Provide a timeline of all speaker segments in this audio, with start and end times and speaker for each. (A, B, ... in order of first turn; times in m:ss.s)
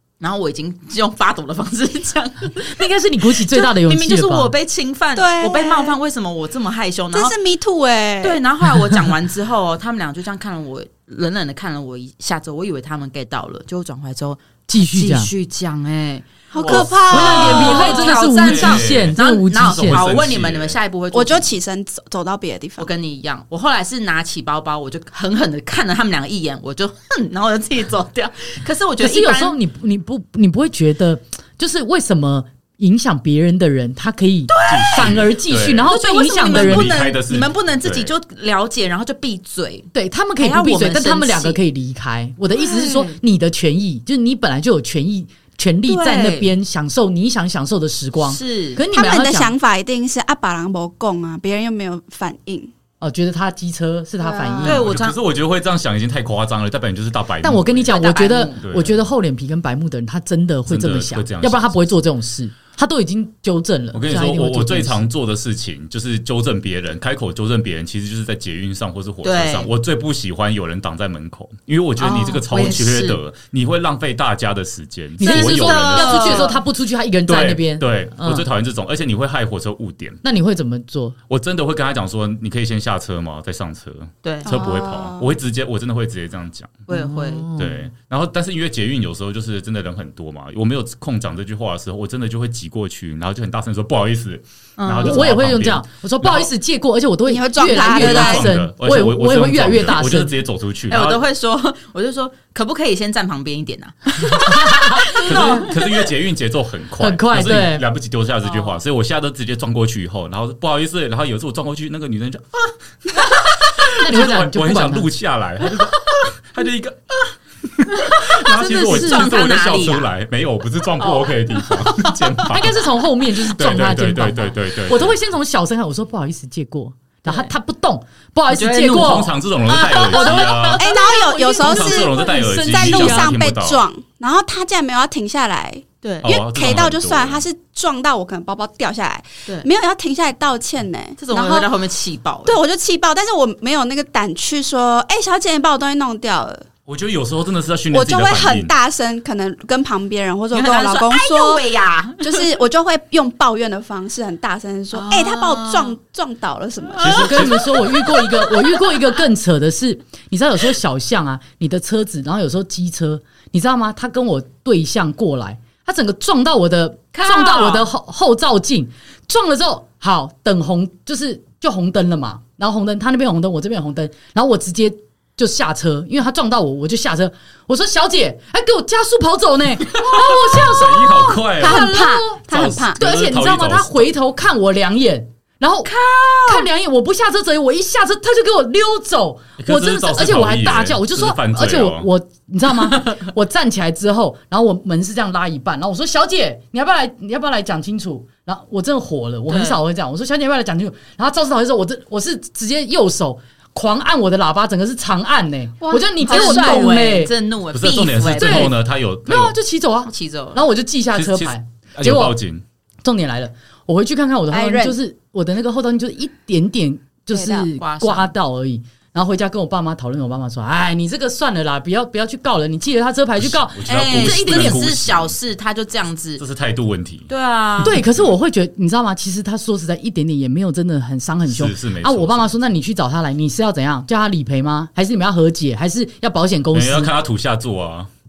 0:00.2-0:02.8 A
0:02.6-0:04.5 B
0:03.4-0:07.3 A
0:05.1-0:06.0 C
0:07.1-0:08.4 C
0:08.2-0:21.5 A
0:14.7-0:15.3 B
0:16.5-0:18.1 C
0:16.6-0:20.8 D
0:17.0-0:20.0 B
0:21.1-0:22.9 C
0:22.8-0:29.6 A
0:29.0-0:37.0 B
0:34.5-0:35.2 A
0:34.7-0:35.9 D
0:35.8-0:41.6 A
0:36.5-0:38.1 D
0:39.9-0:49.5 B
0:42.6-0:43.2 A
0:45.9-0:46.5 A
0:48.2-0:48.8 A
0:48.9-0:52.7 C
0:53.0-0:54.9 B
0:54.2-0:54.8 C
0:54.6-0:55.2 A
0:54.6-0:57.9 D
0:57.4-1:05.0 B
0:57.9-0:58.7 A
0:58.6-0:59.0 D
1:00.7-1:01.8 D
1:03.9-1:16.6 D
1:09.2-1:09.7 A
1:12.0-1:13.2 A
1:15.2-1:18.5 B
1:15.2-1:16.6 A
1:17.3-1:20.2 D
1:20.2-1:21.2 B
1:21.3-1:26.8 D
1:24.2-1:24.6 A
1:24.4-1:25.4 C
1:26.9-1:27.5 A
1:26.9-1:27.9 B
1:27.6-1:36.5 D
1:34.8-1:35.3 A
1:35.0-1:40.3 B
1:37.3-1:38.5 C
1:37.8-1:41.2 D
1:40.9-1:45.7 A
1:44.4-1:45.0 B
1:45.0-2:05.2 D
1:47.0-1:47.8 B
1:48.4-1:48.8 A
1:53.8-1:55.1 B
1:58.1-2:00.1 A
1:58.5-1:59.3 B
2:01.0-2:02.5 A
2:02.5-2:09.3 B
2:08.5-2:11.6 A
2:08.9-2:10.9 D
2:09.9-2:21.7 C
2:11.1-2:13.4 B
2:11.6-2:13.8 D
2:16.0-2:16.3 A
2:16.2-2:17.4 D
2:21.2-2:22.6 A
2:22.4-2:26.6 C
2:26.9-2:28.7 D
2:27.9-2:37.4 C
2:30.5-2:32.5 A
2:34.9-2:35.9 A
2:37.0-2:39.0 A
2:37.0-2:38.0 D
2:37.0-3:02.4 B
2:47.1-2:47.9 A
3:00.0-3:04.1 D
3:01.5-3:03.0 C
3:03.0-3:05.9 B
3:05.8-3:06.7 A
3:06.4-3:27.3 B
3:09.6-3:12.1 D
3:19.5-3:19.8 A
3:25.8-3:27.0 C
3:25.9-3:28.8 A
3:27.7-3:29.6 D
3:28.4-3:32.4 B
3:30.0-3:30.6 A
3:31.1-3:32.6 D
3:33.0-3:44.8 B
3:34.5-3:35.0 C
3:37.3-3:37.7 C
3:37.8-3:38.3 A
3:43.4-3:45.4 D
3:43.8-3:46.4 A
3:46.4-3:48.3 D
3:47.3-3:48.0 A
3:47.8-3:57.1 B
3:51.4-3:52.5 D
3:56.7-3:58.1 D